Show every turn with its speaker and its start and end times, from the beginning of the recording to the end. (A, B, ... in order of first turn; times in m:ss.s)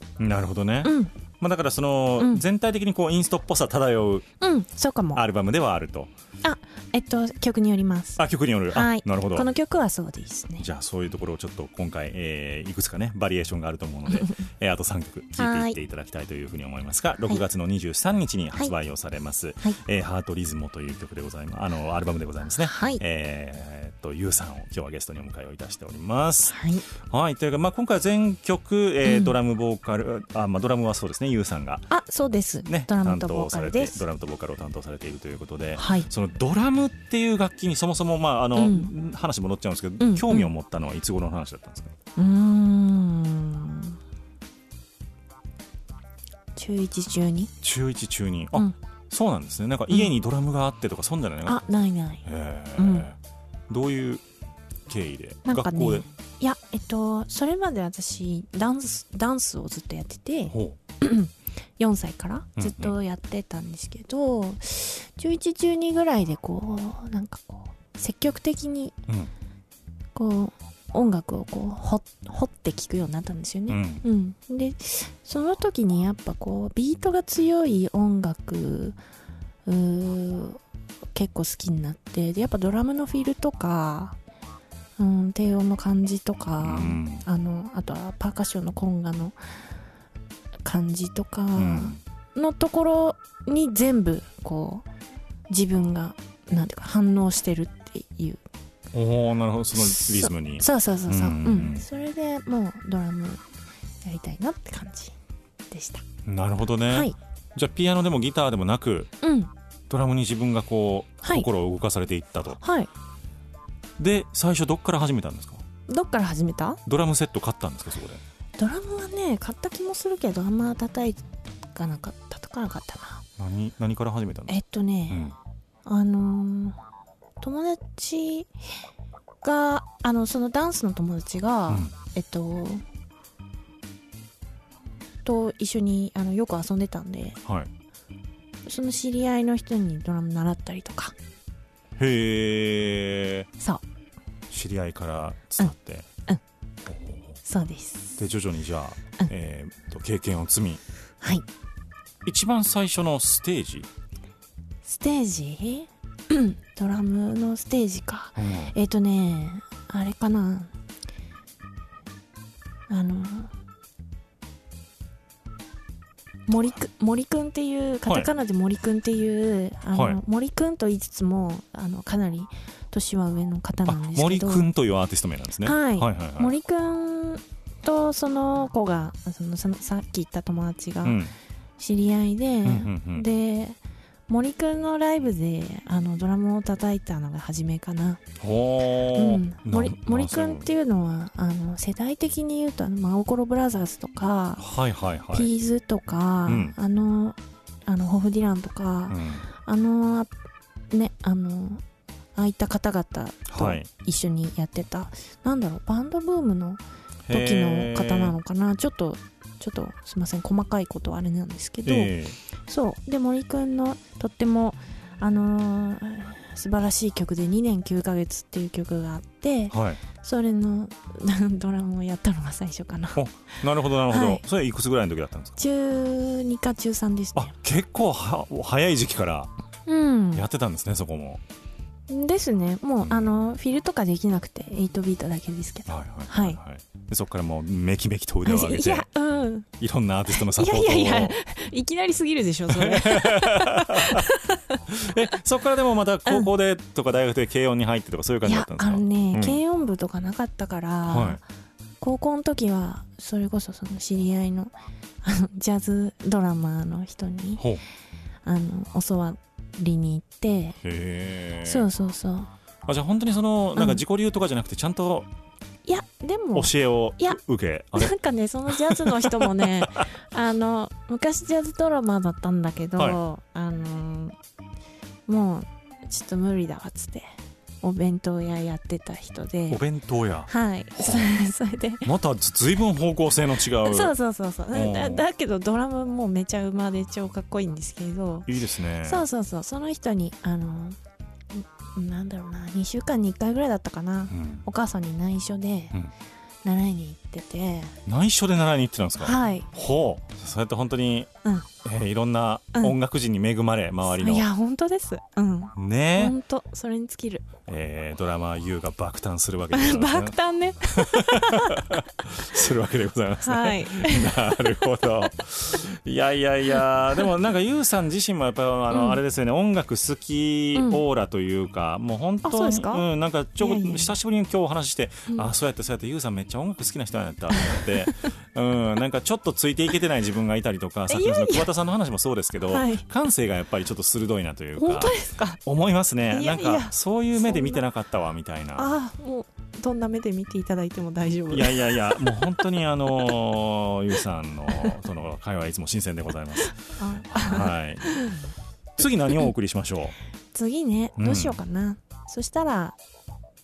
0:00.2-0:04.2 A
0:00.8-0:01.1 B
0:02.2-0:02.4 B
0:04.4-0:05.2 B
0:05.1-0:06.1 A
0:06.4-0:10.7 B
0:08.2-0:09.5 A
0:10.6-0:31.8 A
0:14.1-0:14.4 B
0:15.4-0:15.8 B
0:22.6-0:23.0 B
0:26.5-0:26.8 B
0:29.0-0:29.3 B
0:31.9-0:34.0 B
0:32.6-0:41.9 A
0:35.8-0:36.1 B
0:38.6-0:38.9 B
0:40.0-0:40.5 B
0:42.2-0:44.0 B
0:46.6-0:47.5 B
0:47.6-0:51.6 A
0:51.4-0:53.1 B
0:52.2-0:53.2 A
0:53.7-0:54.2 A
0:54.9-0:56.0 A
0:55.4-1:08.9 B
1:00.5-1:00.8 A
1:02.6-1:02.9 A
1:10.1-1:19.0 B
1:13.7-1:14.0 A
1:19.6-1:20.6 B
1:21.1-1:24.2 B
1:25.0-1:29.3 B
1:26.6-1:27.2 A
1:30.6-1:34.8 B
1:31.6-1:32.0 A
1:35.5-1:38.4 B
1:38.9-1:41.8 A
1:39.7-1:43.4 B
1:44.0-1:45.1 B
1:45.7-1:46.0 B
1:46.2-1:49.1 A
1:46.9-1:47.1 B
1:49.2-1:49.5 B
1:49.9-1:52.6 A
1:52.6-1:52.9 B
1:54.0-1:55.6 A
1:55.9-1:56.8 B
1:56.8-1:58.2 A
1:58.6-2:03.2 B
2:03.4-2:04.6 A
2:04.5-2:05.3 B
2:05.1-2:05.4 A
2:05.8-2:06.8 B
2:07.4-2:08.5 B
2:09.4-2:12.8 B
2:15.2-2:17.4 B
2:17.4-2:17.7 A
2:18.6-2:21.1 B
2:22.0-2:23.5 A
2:24.5-2:26.1 A
2:26.8-2:27.3 A
2:27.4-2:28.2 B
2:28.2-2:30.8 A
2:32.2-2:33.9 A
2:34.8-2:40.7 B
2:38.4-2:38.7 A
2:42.9-2:43.5 B
2:46.5-2:54.6 B
2:49.9-2:50.2 A
2:53.8-2:56.5 A
2:55.6-3:01.2 B
3:01.0-3:01.3 A
3:01.8-3:08.2 B
3:02.6-3:03.2 A
3:08.4-3:10.7 A
3:09.1-3:14.6 B
3:14.6-3:15.5 A
3:15.3-3:20.3 B
3:16.4-3:16.7 A
3:19.1-3:19.4 A
3:20.9-3:21.8 B
3:22.3-3:43.2 B
3:23.5-3:23.9 A
3:27.2-3:28.4 A
3:31.8-3:32.4 A
3:39.7-3:40.0 A
3:43.1-3:45.6 A
3:44.1-3:44.4 B
3:45.6-3:47.5 B
3:47.3-3:49.5 A
3:49.9-3:50.4 B
3:50.3-3:51.4 A
3:52.1-3:56.6 B
3:53.0-3:53.4 A
3:55.9-3:59.1 A
3:58.4-3:59.7 B
3:59.8-4:01.4 A
4:00.3-4:04.8 B
4:02.7-4:04.3 A
4:04.9-4:09.6 A
4:08.4-4:11.4 B
4:11.1-4:11.4 A
4:12.0-4:14.7 B
4:15.2-4:17.6 B
4:17.6-4:17.8 A
4:18.4-4:20.8 B
4:20.8-4:21.9 A
4:21.6-4:22.5 B
4:22.8-4:25.3 A
4:23.8-4:24.0 B
4:25.8-4:27.4 B
4:26.5-4:28.1 A
4:28.0-4:34.4 B
4:28.7-4:30.0 A
4:35.3-4:37.2 B
4:37.8-4:39.8 B
4:39.7-4:41.3 A
4:40.5-4:42.1 B
4:42.0-4:44.1 A
4:43.8-4:48.5 B
4:44.7-4:45.2 A
4:48.4-4:49.2 A
4:49.0-4:51.0 B
4:51.5-4:56.0 B
4:54.3-4:54.6 A
4:56.6-4:58.0 B
4:58.0-5:01.3 A
4:59.2-4:59.7 B
5:01.8-5:04.5 A
5:04.1-5:07.5 B
5:05.7-5:06.3 A
5:07.6-5:38.9 A
5:09.7-5:11.9 B
5:13.4-5:14.6 B
5:18.9-5:19.2 B
5:20.7-5:21.0 B
5:22.4-5:23.0 B
5:23.6-5:24.1 B
5:27.6-5:28.1 B
5:31.1-5:31.7 B
5:32.7-5:33.0 B
5:34.8-5:35.6 B
5:36.3-5:37.8 B
5:38.8-5:42.6 B
5:41.5-5:48.2 A
5:46.6-5:48.4 B
5:49.0-5:50.1 A
5:50.5-5:53.0 B
5:51.2-5:51.6 A